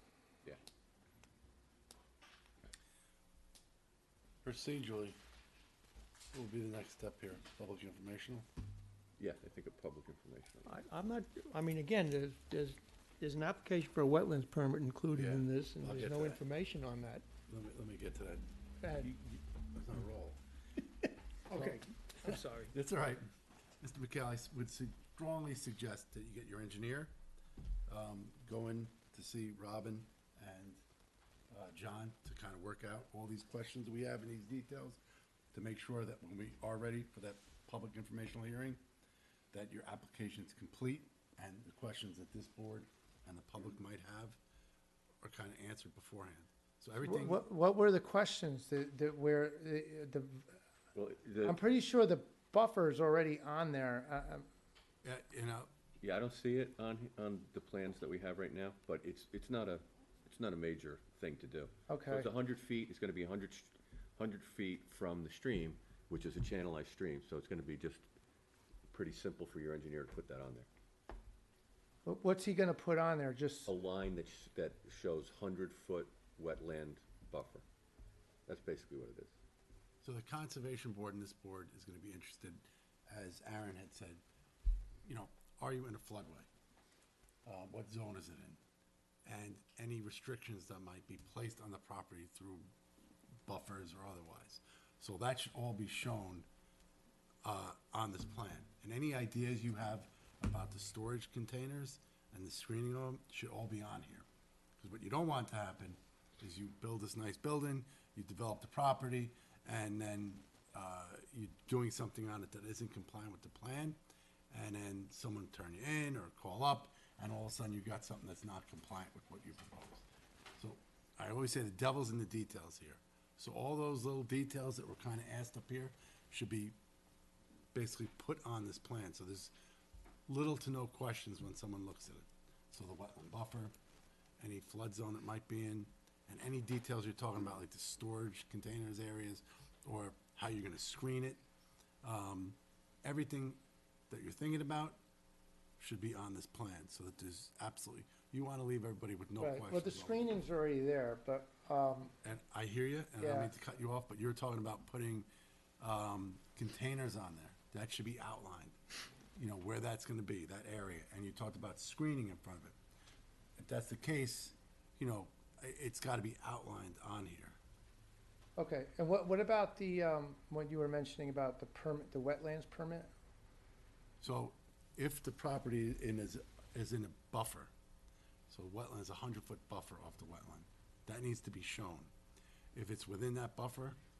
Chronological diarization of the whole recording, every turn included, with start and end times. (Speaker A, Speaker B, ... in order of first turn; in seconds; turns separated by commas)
Speaker A: 4.4-5.2, Speaker A: 6.3-8.4, Speaker B: 9.2-10.7, Speaker C: 10.7-17.2, Speaker A: 15.1-16.4, Speaker A: 17.5-20.4, Speaker A: 21.5-23.2, Speaker C: 21.5-22.7, Speaker A: 23.8-27.1, Speaker A: 27.9-30.8, Speaker A: 31.5-35.0, Speaker A: 35.5-38.8, Speaker A: 39.5-44.4, Speaker A: 45.2-47.4, Speaker D: 47.0-50.6, Speaker B: 50.9-51.6, Speaker D: 51.4-54.5, Speaker A: 55.0-55.7, Speaker B: 56.0-68.0, Speaker D: 61.9-62.3, Speaker B: 68.9-70.7, Speaker D: 72.0-73.7, Speaker B: 73.7-77.6, Speaker B: 78.5-79.3, Speaker A: 80.0-84.2, Speaker A: 85.0-86.5, Speaker A: 87.4-88.6, Speaker A: 89.2-92.7, Speaker A: 93.5-96.5, Speaker A: 97.4-104.2, Speaker A: 104.8-114.0, Speaker A: 114.5-120.0, Speaker A: 120.6-126.7, Speaker A: 127.7-129.5, Speaker A: 130.3-133.7, Speaker A: 134.4-141.4, Speaker A: 142.0-145.0, Speaker A: 145.8-150.3, Speaker D: 149.4-152.1, Speaker A: 152.2-155.3, Speaker D: 153.2-153.5, Speaker A: 155.8-158.8, Speaker A: 159.3-162.8, Speaker A: 163.6-167.6, Speaker D: 168.6-173.1, Speaker A: 174.2-177.7, Speaker A: 178.5-182.1, Speaker A: 182.7-184.0